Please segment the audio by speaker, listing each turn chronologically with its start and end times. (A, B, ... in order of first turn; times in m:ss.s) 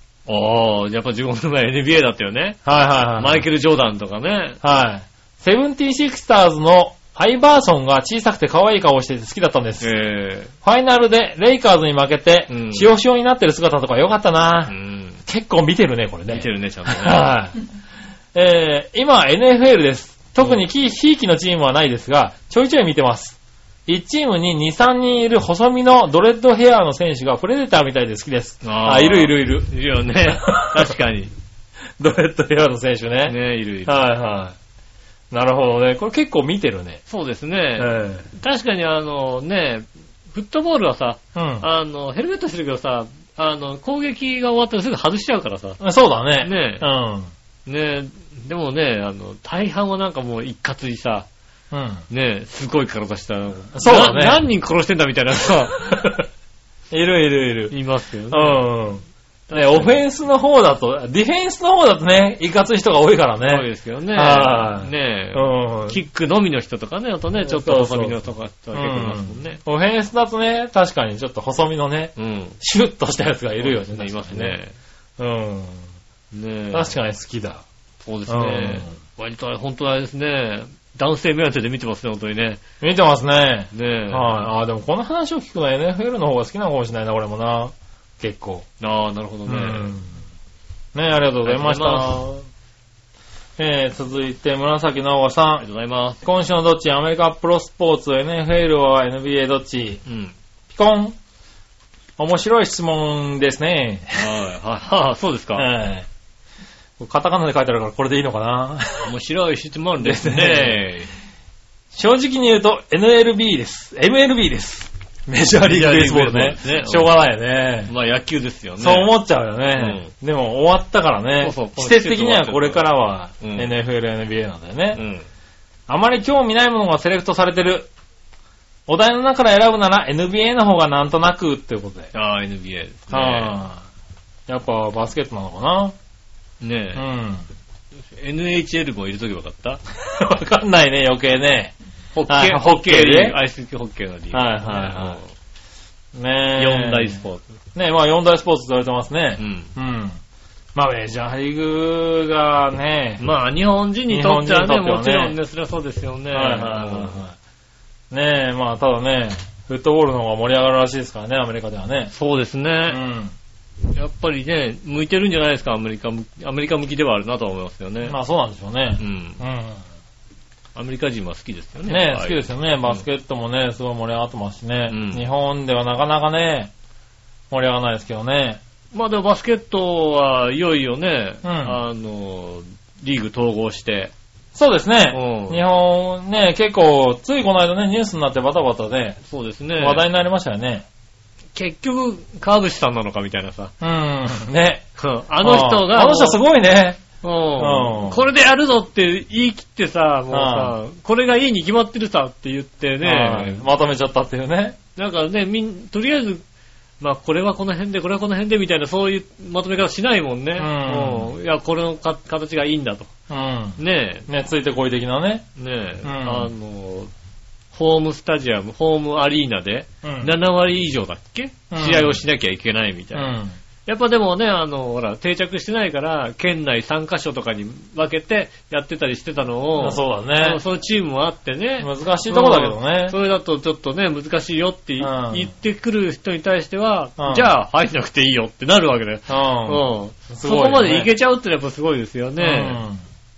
0:00.3-0:02.6 A
0:02.6-0:03.4 B
0:03.2-0:04.6 A
0:04.6-0:09.9 B
0:09.8-0:10.5 A
0:10.6-0:14.7 B
0:12.5-0:12.9 A
0:14.7-0:15.2 A
0:15.2-0:17.6 B
0:16.3-0:17.3 A
0:18.3-0:29.7 B
0:28.6-0:31.3 A
0:30.3-0:30.9 B
0:32.0-0:34.6 B
0:33.2-0:34.0 A
0:35.3-0:37.0 B
0:37.1-0:45.8 A
0:37.8-0:38.3 B
0:41.3-0:41.6 B
0:45.8-0:47.3 B
0:46.4-0:46.9 A
0:47.6-0:51.3 A
0:51.7-0:52.0 B
0:52.1-0:56.0 A
0:53.7-0:54.4 B
0:55.8-0:56.2 B
0:56.9-0:57.7 B
0:57.7-0:58.7 A
0:58.3-1:06.0 B
0:59.5-1:00.0 A
1:03.4-1:09.6 A
1:07.4-1:08.2 B
1:08.7-1:14.6 B
1:12.2-1:12.6 A
1:13.6-1:14.7 A
1:15.2-1:15.9 B
1:16.3-1:16.9 A
1:16.7-1:17.6 B
1:18.0-1:22.6 A
1:18.3-1:18.9 B
1:22.8-1:28.6 B
1:23.7-1:24.5 A
1:28.8-1:29.9 A
1:29.5-1:30.2 B
1:30.9-1:32.4 B
1:31.4-1:32.2 A
1:33.6-1:35.6 B
1:35.6-1:36.2 A
1:36.2-1:40.0 B
1:40.0-1:40.3 A
1:40.7-1:41.2 B
1:42.2-1:44.3 B
1:44.2-1:45.7 A
1:45.6-1:46.1 B
1:47.0-1:49.1 B
1:49.0-1:51.1 A
1:50.0-1:50.8 B
1:51.9-1:57.9 B
1:55.7-1:57.1 A
1:57.9-1:59.1 A
1:58.8-2:05.0 B
1:59.8-2:00.1 A
2:01.4-2:02.8 A
2:03.4-2:03.7 A
2:04.9-2:05.2 A
2:05.9-2:07.9 B
2:08.9-2:12.1 B
2:12.1-2:13.6 A
2:13.1-2:13.8 B
2:14.5-2:16.0 B
2:16.6-2:17.0 A
2:17.0-2:17.4 B
2:18.1-2:19.8 A
2:20.0-2:21.7 B
2:22.1-2:25.3 A
2:22.3-2:23.4 B
2:24.3-2:25.2 B
2:26.1-2:27.2 B
2:26.6-2:27.5 A
2:27.7-2:30.2 B
2:29.4-2:29.7 A
2:30.7-2:33.2 B
2:33.2-2:37.2 A
2:34.1-2:35.4 B
2:36.3-2:37.4 B
2:38.1-2:42.1 B
2:42.1-2:43.0 A
2:42.9-2:43.3 B
2:43.9-2:48.1 A
2:48.0-2:49.8 B
2:49.0-2:49.4 A
2:50.7-2:53.0 A
2:51.9-2:56.7 B
2:54.9-2:55.2 A
2:57.5-2:58.6 B
2:58.9-3:04.1 A
3:01.4-3:01.8 B
3:04.5-3:09.2 B
3:05.1-3:05.6 A
3:09.3-3:10.0 A
3:09.8-3:10.8 B
3:11.5-3:13.7 A
3:13.8-3:14.8 B
3:15.0-3:16.4 A
3:15.4-3:17.0 B
3:17.2-3:23.6 A
3:17.6-3:18.2 B
3:20.3-3:20.7 B
3:23.0-3:24.8 B
3:25.0-3:26.4 A
3:27.0-3:33.1 A
3:30.6-3:31.3 B
3:33.3-3:35.4 B
3:33.8-3:34.3 A
3:35.6-3:37.1 A
3:36.0-3:36.5 B
3:37.7-4:02.8 A
3:40.0-3:40.3 B
3:41.7-3:42.2 B
3:43.1-3:43.6 B
3:49.8-3:50.6 B
3:51.8-3:53.2 B
3:55.0-3:55.5 B
3:57.2-3:57.5 B
3:59.3-4:01.1 B
4:02.4-4:03.0 B